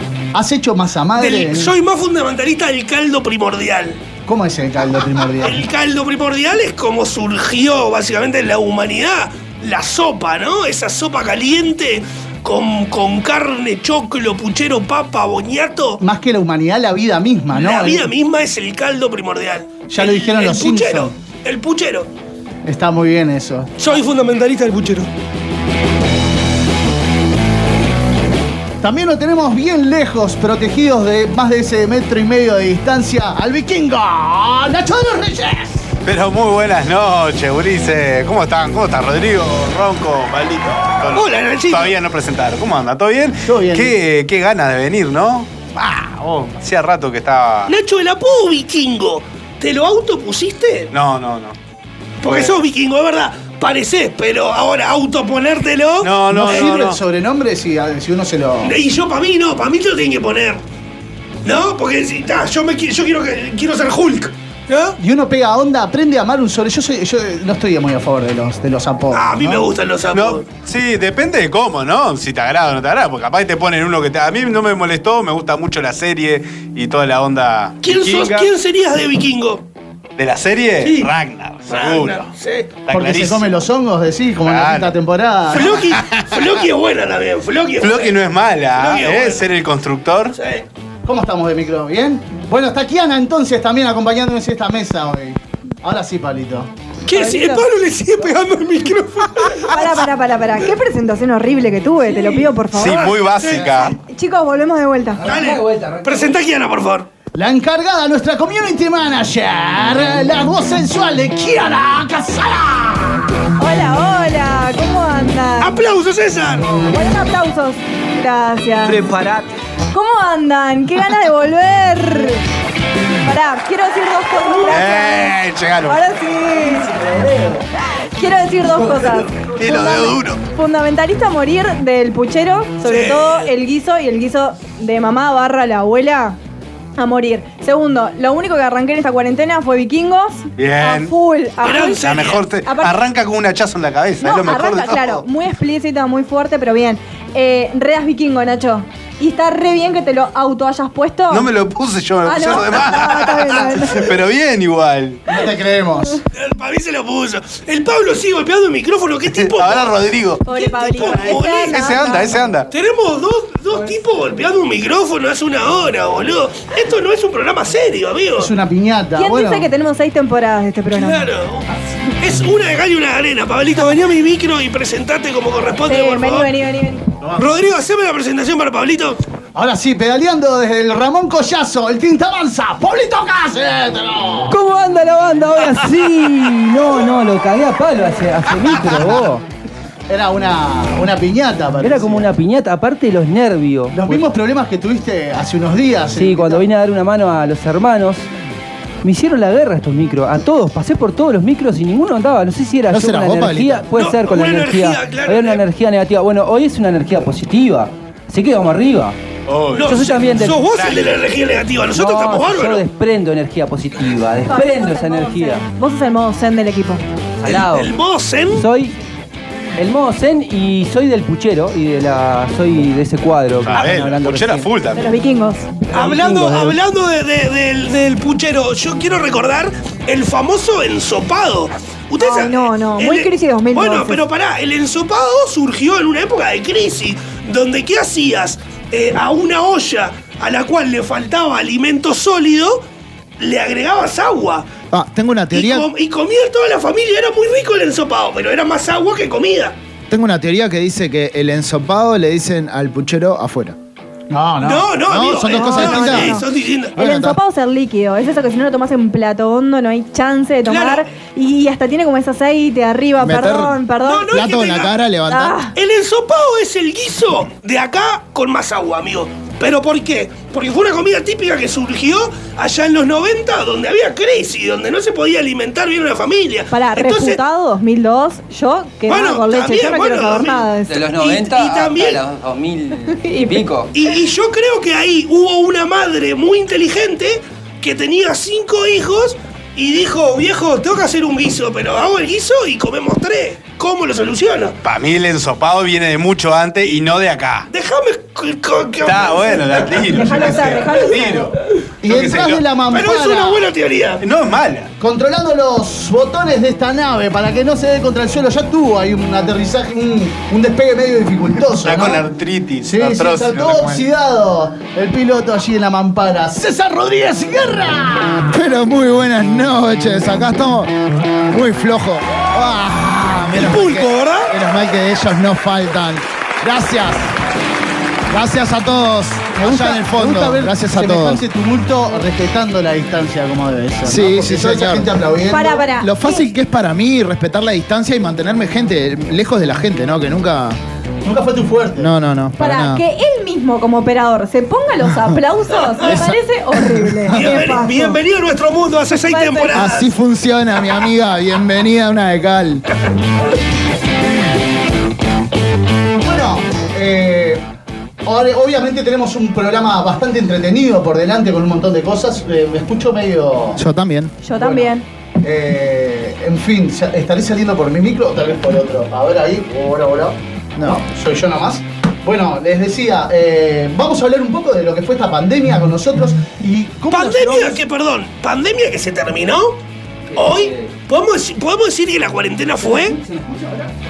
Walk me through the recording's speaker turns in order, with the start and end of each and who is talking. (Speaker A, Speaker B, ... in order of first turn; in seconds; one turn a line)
Speaker A: 0.3-1.7
Speaker B: 1.2-4.0
Speaker A: 4.2-5.6
Speaker B: 5.4-16.0
Speaker A: 16.0-18.1
Speaker B: 17.5-22.1
Speaker A: 19.9-21.1
Speaker A: 22.6-23.8
Speaker B: 23.8-25.1
Speaker A: 28.8-35.8
Speaker C: 36.0-47.7
Speaker B: 41.1-41.9
Speaker A: 43.4-44.0
Speaker B: 47.7-50.9
Speaker C: 50.9-51.5
Speaker B: 52.2-56.7
Speaker C: 52.2-52.6
Speaker C: 56.0-57.0
Speaker A: 56.3-58.8
Speaker B: 58.6-60.6
Speaker B: 61.4-65.0
Speaker A: 65.0-69.7
Speaker B: 69.1-70.5
Speaker C: 70.1-78.5
Speaker B: 77.8-79.6
Speaker C: 80.2-82.3
Speaker B: 80.8-81.1
Speaker B: 81.7-82.7
Speaker C: 82.8-83.5
Speaker A: 82.9-85.8
Speaker C: 84.4-84.9
Speaker B: 85.5-89.5
Speaker C: 85.5-86.5
Speaker C: 87.8-90.3
Speaker B: 90.3-90.7
Speaker A: 91.0-96.7
Speaker B: 97.1-99.9
Speaker D: 97.1-97.6
Speaker D: 99.6-103.0
Speaker E: 102.0-102.6
Speaker C: 102.7-103.9
Speaker B: 102.8-103.9
Speaker D: 104.1-105.2
Speaker E: 105.2-106.4
Speaker B: 105.2-107.1
Speaker A: 107.3-113.4
Speaker D: 113.6-115.8
Speaker B: 115.6-116.7
Speaker D: 116.9-119.1
Speaker E: 118.8-119.4
Speaker D: 119.9-122.4
Speaker D: 123.2-126.9
Speaker C: 124.7-126.0
Speaker A: 127.0-127.4
Speaker D: 128.2-136.4
Speaker C: 129.6-130.4
Speaker B: 132.8-133.5
Speaker D: 137.0-142.0
Speaker C: 140.6-141.1
Speaker B: 141.6-142.4
Speaker C: 142.0-145.2
Speaker D: 142.6-143.0
Speaker D: 144.2-151.5
Speaker C: 151.3-155.2
Speaker D: 152.2-154.1
Speaker A: 155.3-156.2
Speaker B: 156.3-162.0
Speaker C: 159.4-162.7
Speaker D: 160.4-162.4
Speaker B: 162.7-168.5
Speaker A: 168.4-169.7
Speaker D: 169.2-171.3
Speaker B: 170.9-171.7
Speaker B: 172.2-176.5
Speaker D: 175.9-177.1
Speaker B: 177.3-179.2
Speaker A: 179.5-184.6
Speaker E: 184.5-189.4
Speaker A: 188.6-189.3
Speaker A: 190.1-192.3
Speaker E: 191.8-194.2
Speaker A: 193.9-196.7
Speaker E: 196.1-198.3
Speaker E: 199.0-209.2
Speaker A: 202.9-203.8
Speaker B: 203.9-205.6
Speaker C: 209.4-210.1
Speaker B: 209.8-212.8
Speaker E: 209.8-210.6
Speaker C: 210.6-211.1
Speaker E: 211.9-215.6
Speaker D: 214.4-217.0
Speaker E: 217.4-217.9
Speaker B: 217.4-218.7
Speaker E: 218.5-218.9
Speaker E: 219.8-224.7
Speaker C: 223.6-225.2
Speaker D: 224.9-225.7
Speaker E: 225.9-226.8
Speaker B: 225.9-242.8
Speaker D: 232.2-234.2
Speaker B: 243.4-244.7
Speaker F: 244.9-245.9
Speaker B: 245.5-249.8
Speaker F: 250.1-253.8
Speaker A: 254.3-254.9
Speaker B: 254.6-256.9
Speaker F: 255.1-256.4
Speaker D: 255.5-264.3
Speaker F: 257.0-257.4
Speaker B: 260.7-261.0
Speaker F: 263.2-265.5
Speaker B: 264.0-265.0
Speaker D: 265.2-265.7
Speaker B: 265.7-277.4
Speaker D: 276.7-281.0
Speaker B: 279.1-282.2
Speaker E: 280.9-283.9
Speaker D: 283.1-283.6
Speaker B: 283.9-294.8
Speaker C: 294.8-297.7
Speaker B: 297.7-300.1
Speaker C: 299.0-302.6
Speaker D: 300.1-301.5
Speaker A: 302.0-303.7
Speaker B: 302.9-304.2
Speaker C: 304.2-304.9
Speaker A: 305.0-312.2
Speaker C: 311.8-314.0
Speaker A: 312.8-318.5
Speaker F: 318.5-320.9
Speaker F: 321.5-327.3
Speaker B: 323.5-324.5
Speaker F: 328.3-331.4
Speaker A: 329.6-335.9
Speaker F: 334.0-335.1
Speaker D: 335.5-336.4
Speaker F: 336.0-340.8
Speaker A: 341.2-342.1
Speaker F: 342.0-343.0
Speaker D: 342.6-348.1
Speaker F: 346.1-346.4
Speaker F: 347.3-347.5
Speaker B: 347.3-350.1
Speaker D: 349.3-349.9
Speaker F: 349.7-352.8
Speaker A: 356.2-357.6
Speaker A: 358.2-363.8
Speaker F: 363.8-364.3
Speaker D: 364.4-365.0
Speaker A: 364.5-377.8
Speaker B: 377.1-379.8
Speaker E: 380.3-380.9
Speaker B: 380.3-383.2
Speaker E: 382.8-383.9